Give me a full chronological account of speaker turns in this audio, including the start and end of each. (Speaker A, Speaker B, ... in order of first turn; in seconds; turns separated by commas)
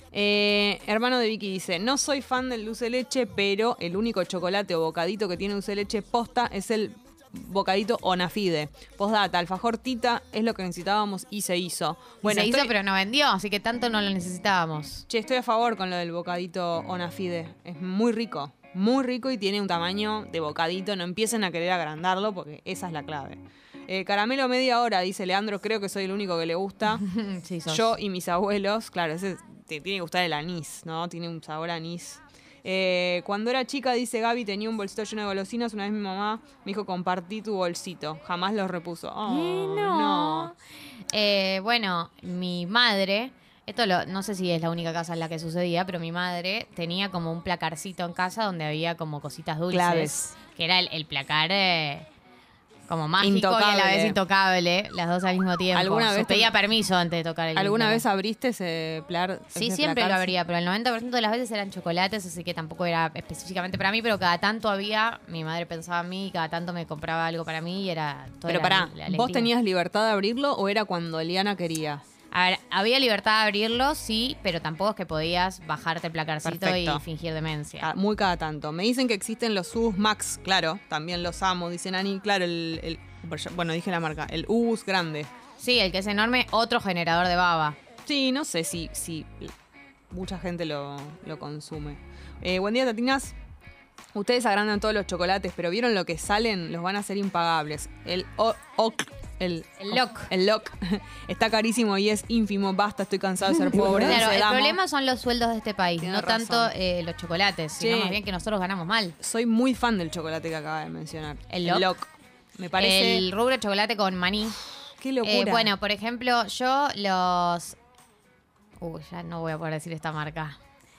Speaker A: 0.1-12.7, Speaker B: 12.2-15.1, Speaker A: 15.1-27.0, Speaker B: 26.9-27.9, Speaker A: 27.7-40.5, Speaker B: 39.3-40.5, Speaker B: 41.1-52.1, Speaker A: 49.7-50.3, Speaker B: 52.9-58.0, Speaker A: 53.2-54.2, Speaker A: 55.7-56.5, Speaker A: 57.5-60.3, Speaker B: 59.5-69.5, Speaker A: 68.5-72.0, Speaker B: 72.3-77.9, Speaker A: 76.4-77.0, Speaker A: 77.8-85.3, Speaker B: 85.6-87.8, Speaker A: 88.1-89.5, Speaker A: 90.1-93.3, Speaker A: 94.2-104.8, Speaker B: 99.8-100.3, Speaker B: 103.8-109.2, Speaker A: 106.0-106.7, Speaker A: 107.8-108.2, Speaker A: 109.2-113.2, Speaker B: 111.5-111.9, Speaker B: 112.8-114.6, Speaker A: 115.0-115.7, Speaker B: 115.2-117.8, Speaker B: 118.8-120.6